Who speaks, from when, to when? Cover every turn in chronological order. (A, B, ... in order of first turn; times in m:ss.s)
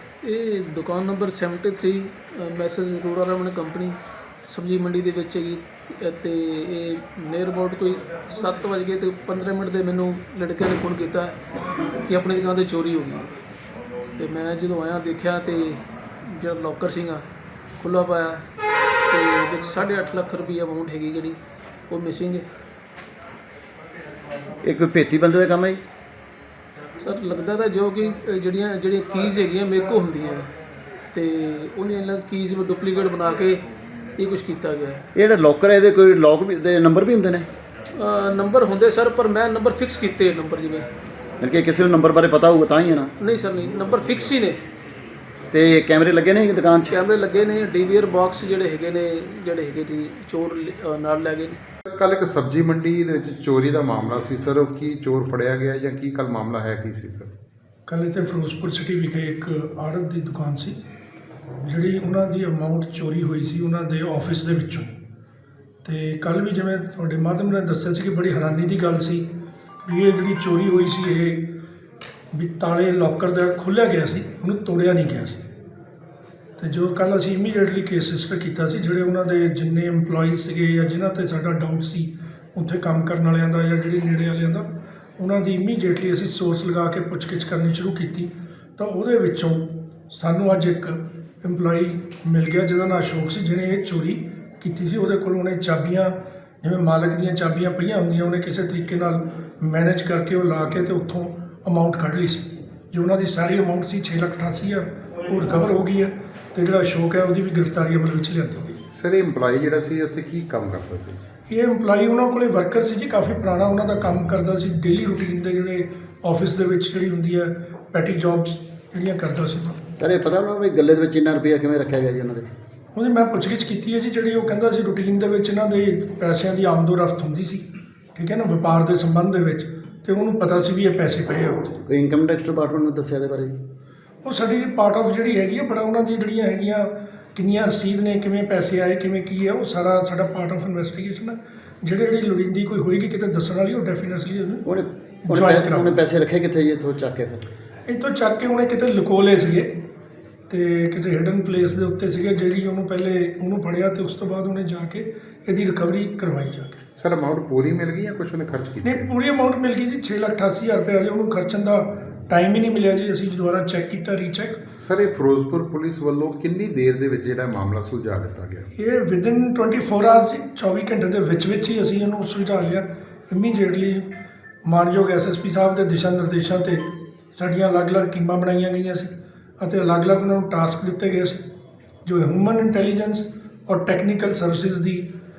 0:00.2-0:04.0 A
0:04.5-0:13.3 A
0:14.2-0:17.2 A
0:17.8-0:18.4 A
0:19.1-0:22.4 A
0:24.6-0:25.8 B
0:27.0-0:30.5 A
0:31.1-0:33.6 A
0:34.2-0:35.0 A
0:35.1-0:37.5 B
0:37.9-0:40.9 A
0:41.4-0:43.1 B
0:43.2-0:44.6 A
0:45.5-0:46.9 B
0:46.9-0:51.6 A
0:51.9-0:57.3 C
0:57.9-1:00.8 D
1:01.6-1:04.9 D
1:05.8-1:09.3 D
1:09.8-1:11.5 D
1:12.3-1:15.4 D
1:16.6-1:48.8 D
1:48.9-1:51.2 C
1:51.5-1:59.9 D
2:00.0-2:02.5 B
2:02.9-2:11.8 D
2:11.8-2:13.6 B
2:14.2-2:24.6 D
2:24.6-2:27.4 B
2:25.2-2:25.9 D
2:27.8-2:29.7 D
2:30.5-2:36.8 D
2:37.0-2:39.1 C
2:38.8-2:44.7 D
2:44.8-2:48.7 C
2:48.7-2:54.0 D
2:54.6-3:01.4 D
3:02.0-3:05.1 D